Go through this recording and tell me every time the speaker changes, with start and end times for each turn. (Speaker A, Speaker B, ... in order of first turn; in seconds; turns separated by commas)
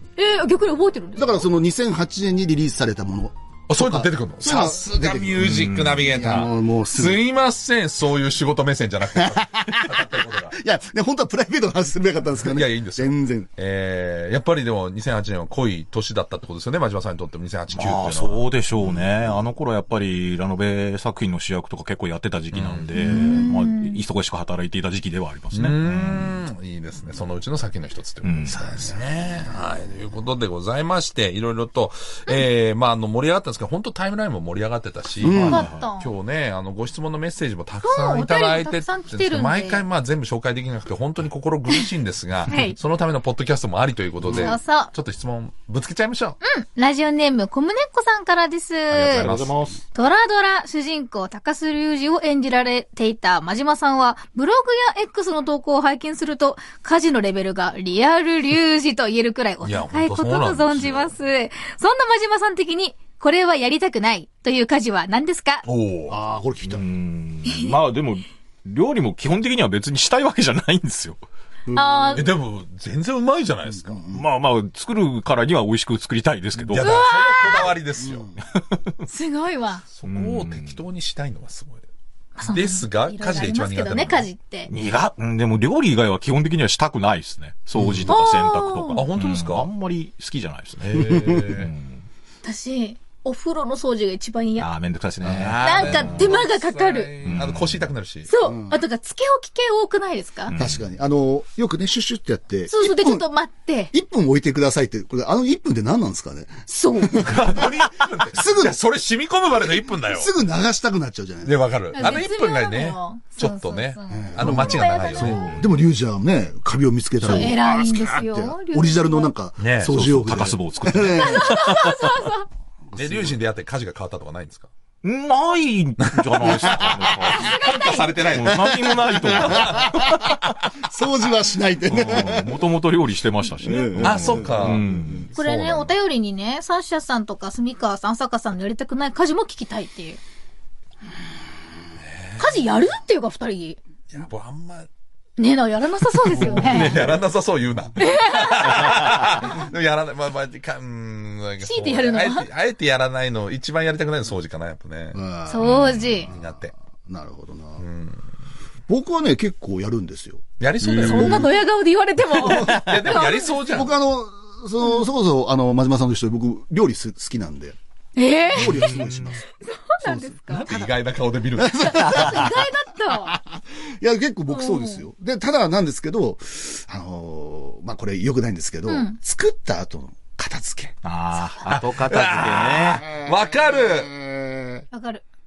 Speaker A: 0.1-1.4, Speaker B: 1.1-7.2, Speaker C: 3.7-10.5, Speaker D: 5.4-6.1, Speaker B: 9.1-13.5, Speaker C: 12.4-19.1, Speaker D: 17.7-26.3, Speaker C: 22.5-23.4, Speaker A: 22.9-24.0, Speaker C: 25.5-46.4, Speaker D: 28.2-28.6, Speaker B: 28.5-28.8, Speaker B: 35.2-35.6, Speaker D: 35.4-35.8, Speaker A: 35.5-36.1, Speaker A: 37.8-39.8, Speaker A: 42.5-42.8, Speaker A: 44.3-44.9, Speaker A: 46.4-49.3, Speaker D: 48.9-49.7, Speaker C: 49.0-49.8, Speaker A: 49.9-65.7, Speaker C: 59.6-61.1, Speaker C: 65.6-66.2, Speaker B: 66.1-66.8, Speaker D: 66.6-71.2, Speaker A: 67.5-67.8, Speaker B: 71.7-72.2, Speaker A: 71.7-72.3, Speaker C: 72.1-74.0, Speaker B: 73.7-74.3, Speaker D: 74.1-76.9, Speaker C: 76.5-78.3, Speaker A: 76.8-77.7, Speaker B: 78.0-78.4, Speaker D: 78.4-79.0, Speaker A: 79.1-79.8, Speaker C: 79.9-81.8, Speaker D: 80.0-80.8, Speaker A: 82.3-84.7, Speaker C: 82.4-84.3, Speaker D: 84.7-92.0, Speaker A: 88.1-89.0, Speaker C: 88.9-89.7, Speaker C: 90.8-91.7, Speaker A: 92.4-94.7, Speaker D: 94.6-96.3, Speaker C: 95.2-98.3, Speaker A: 95.6-97.1, Speaker D: 97.2-97.9, Speaker A: 98.2-100.5, Speaker B: 98.4-98.8, Speaker D: 100.5-100.8, Speaker B: 100.5-103.3, Speaker A: 102.7-103.9, Speaker B: 103.9-107.6, Speaker A: 106.7-107.3, Speaker C: 107.2-110.3, Speaker B: 108.3-108.8, Speaker B: 110.0-111.7, Speaker C: 111.4-115.5, Speaker A: 111.9-115.5, Speaker B: 114.1-121.9, Speaker D: 117.2-117.5, Speaker A: 117.2-119.3, Speaker C: 119.6-120.1, Speaker D: 119.9-121.7, Speaker A: 121.1-122.5, Speaker B: 122.8-123.4, Speaker C: 123.0-124.7, Speaker D: 125.0-130.3, Speaker C: 126.0-130.3, Speaker B: 126.7-127.1, Speaker A: 127.2-128.1, Speaker B: 128.4-132.7, Speaker D: 131.8-135.3, Speaker B: 133.6-135.2, Speaker C: 134.0-135.9, Speaker A: 135.3-140.2, Speaker C: 142.0-142.7, Speaker A: 142.4-143.8, Speaker C: 144.1-144.9, Speaker A: 145.4-147.0, Speaker C: 146.3-155.2, Speaker D: 146.8-147.1, Speaker A: 148.0-149.1, Speaker A: 151.6-152.5, Speaker B: 155.1-157.8, Speaker A: 155.4-156.3, Speaker D: 155.6-156.1, Speaker C: 156.1-156.7, Speaker C: 157.8-158.2, Speaker B: 158.9-161.5, Speaker C: 160.6-161.5, Speaker D: 160.8-161.3, Speaker A: 161.0-163.6, Speaker B: 162.4-162.9, Speaker C: 162.5-163.9, Speaker B: 163.7-167.8, Speaker A: 168.2-169.0, Speaker B: 168.5-169.4, Speaker D: 168.6-169.3, Speaker A: 169.6-170.6, Speaker B: 170.0-170.9, Speaker C: 170.5-172.1, Speaker B: 171.6-180.9, Speaker A: 171.8-173.4, Speaker A: 174.5-175.0, Speaker A: 178.9-179.2, Speaker D: 181.0-183.1, Speaker C: 181.6-184.1, Speaker B: 182.9-184.8, Speaker A: 184.9-185.2